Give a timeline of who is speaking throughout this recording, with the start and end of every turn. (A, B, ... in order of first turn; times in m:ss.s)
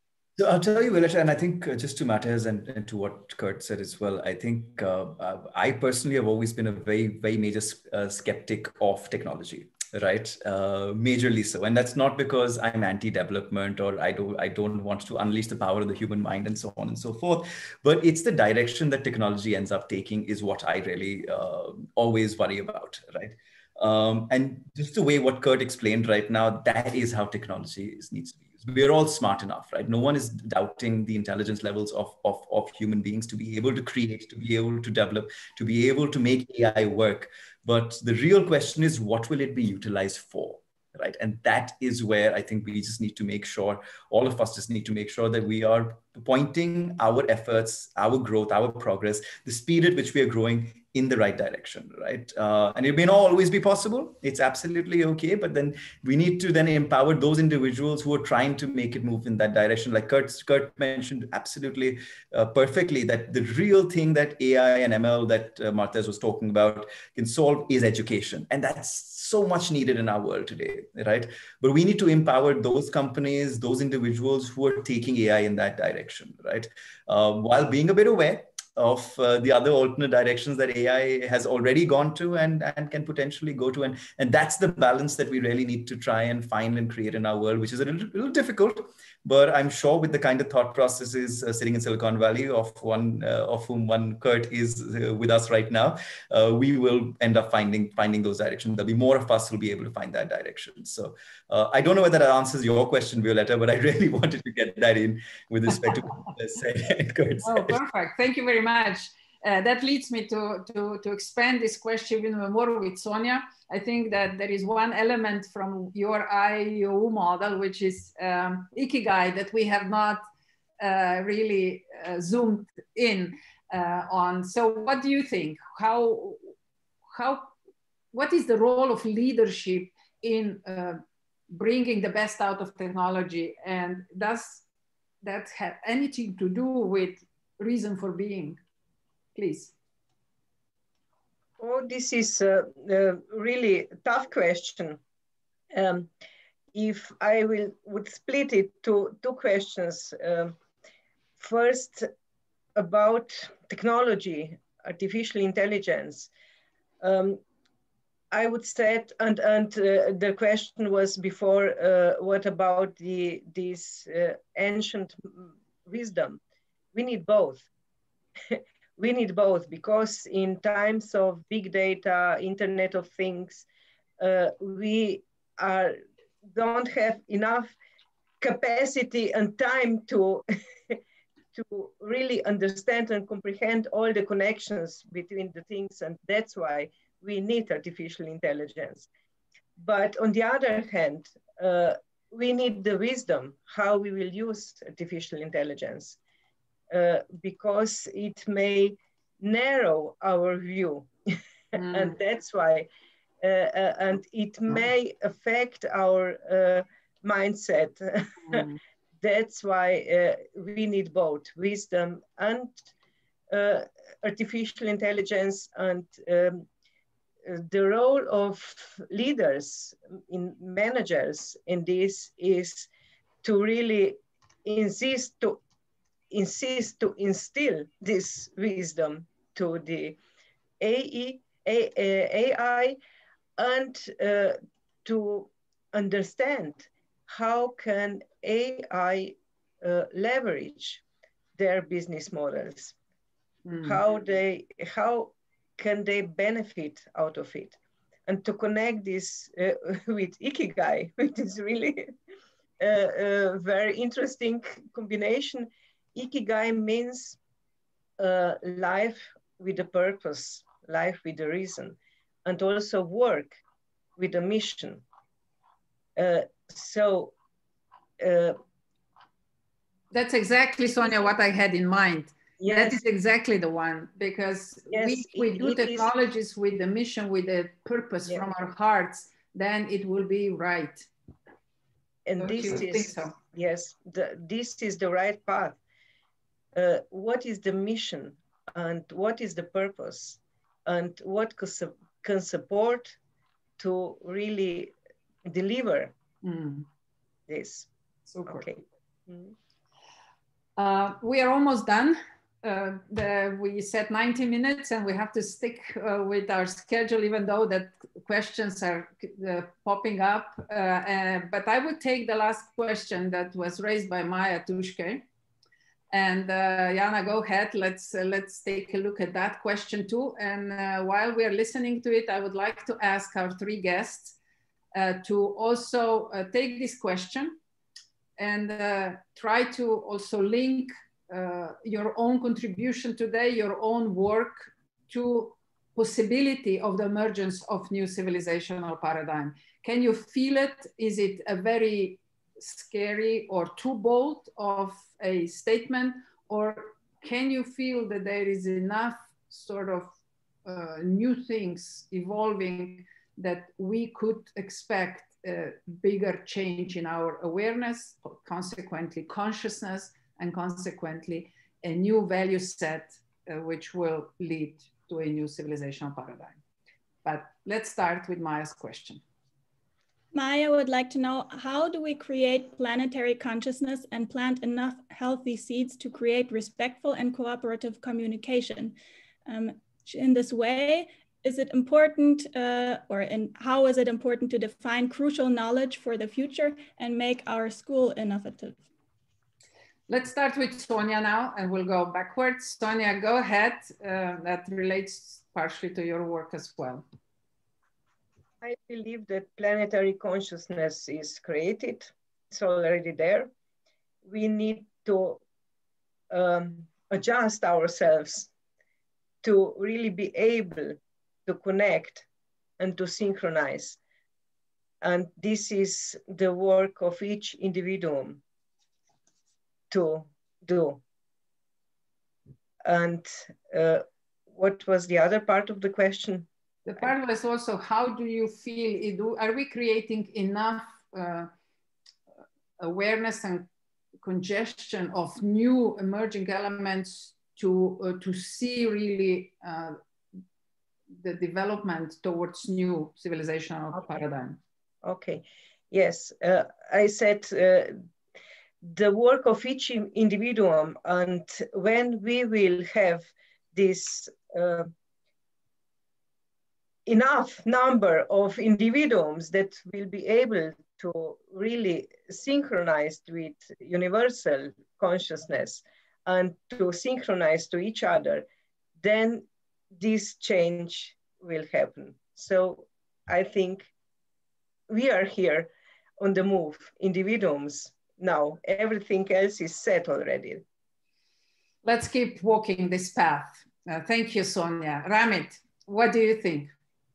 0:00.4-1:47.8 A
1:47.4-2:00.2 B
2:00.8-2:06.4 B
2:07.1-2:07.5 B
2:08.1-2:11.0 B
2:11.5-2:14.6 B
2:15.2-2:18.6 B
2:19.3-2:19.7 B
2:21.6-2:25.0 C
2:25.7-2:26.1 C
2:26.7-2:30.5 C
2:31.4-2:32.1 C
2:32.8-2:36.3 C
2:37.0-2:37.4 C
2:38.3-2:46.4 C
2:46.9-2:47.7 C
2:48.5-2:53.6 C
2:54.2-2:56.0 C
2:56.5-2:57.7 C
2:58.4-3:01.0 C
3:01.5-3:09.1 C
3:09.8-3:16.2 C
3:16.9-3:22.9 C
3:21.8-3:22.2 B
3:23.4-3:28.7 C
3:28.5-3:28.8 B
3:29.2-3:32.8 C
3:33.5-3:36.6 C
3:37.4-3:42.9 C
3:43.4-3:45.6 C
3:46.3-3:50.2 C
3:50.8-3:53.0 C
3:53.6-4:01.0 C
4:01.6-4:02.9 C
4:03.6-4:04.0 B
4:03.8-4:07.8 C
4:08.3-4:12.1 C
4:12.8-4:17.4 C
4:18.2-4:23.6 C
4:24.2-4:25.0 C
4:26.2-4:27.3 C
4:28.2-4:28.6 C
4:30.1-4:41.1 B
4:32.6-4:33.0 C
4:34.9-4:36.1 C
4:42.2-4:45.8 C
4:42.4-4:43.3 B
4:46.7-4:53.2 C
4:53.8-4:54.9 C
4:55.4-4:56.1 C
4:56.4-4:56.8 B
4:57.5-4:57.9 C
4:58.3-4:58.6 B
4:58.4-4:59.5 C
5:00.8-5:15.2 B
5:16.1-5:24.4 B
5:24.9-5:27.6 B
5:28.4-5:50.1 B
5:50.6-6:06.6 B
6:07.2-6:09.2 B
6:10.3-6:18.9 D
6:19.4-6:28.8 D
6:30.1-6:37.0 B
6:38.6-6:43.5 C
6:44.2-6:45.4 C
6:46.3-6:48.5 C
6:49.4-6:52.2 C
6:52.8-6:54.0 C
6:55.0-6:58.4 C
6:59.9-7:01.0 C
7:02.8-7:06.5 C
7:06.8-7:11.5 B
7:12.8-7:13.7 B
7:14.2-7:20.0 B
7:21.2-7:24.6 B
7:23.9-7:24.2 C
7:25.0-7:27.9 C
7:28.8-7:34.9 C
7:37.0-7:48.4 C
7:49.0-7:53.9 C
7:54.9-7:55.7 C
7:56.2-8:00.6 C
8:01.8-8:06.7 B